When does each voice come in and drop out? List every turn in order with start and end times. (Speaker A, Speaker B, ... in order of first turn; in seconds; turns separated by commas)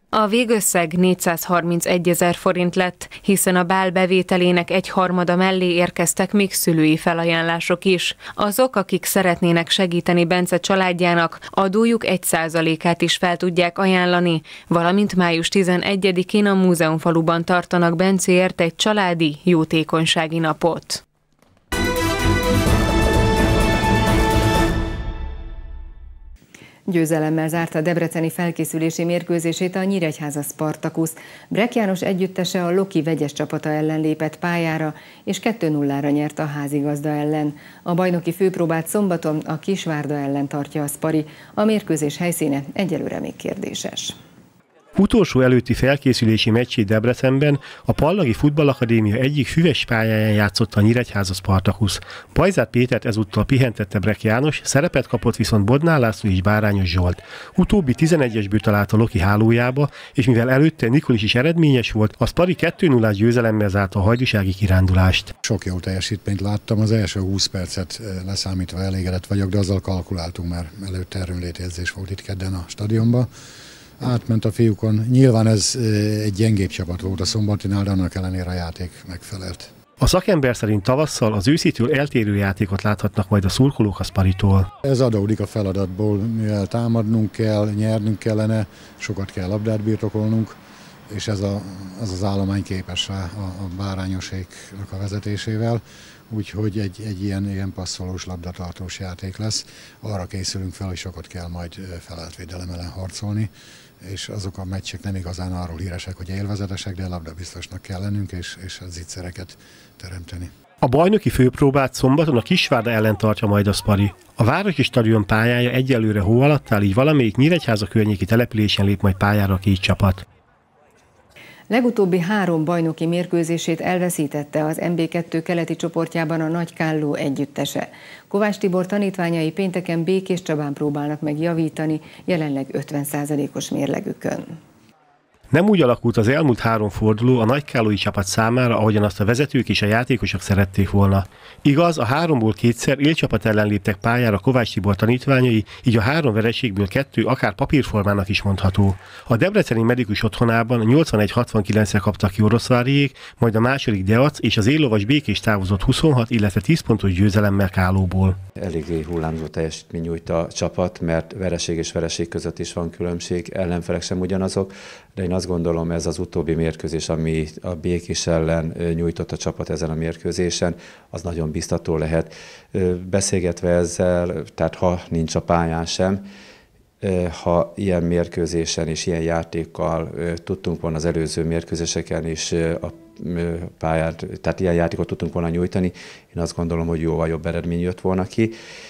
Speaker A: 0.1-21.0, Speaker B: 26.9-44.2, Speaker C: 45.0-65.3, Speaker D: 65.4-73.3, Speaker D: 74.0-79.7, Speaker C: 80.0-84.7, Speaker D: 84.8-90.6, Speaker D: 91.1-110.5, Speaker C: 110.8-120.3, Speaker B: 121.7-134.6, Speaker C: 135.5-158.4, Speaker E: 158.6-176.2, Speaker E: 177.0-188.5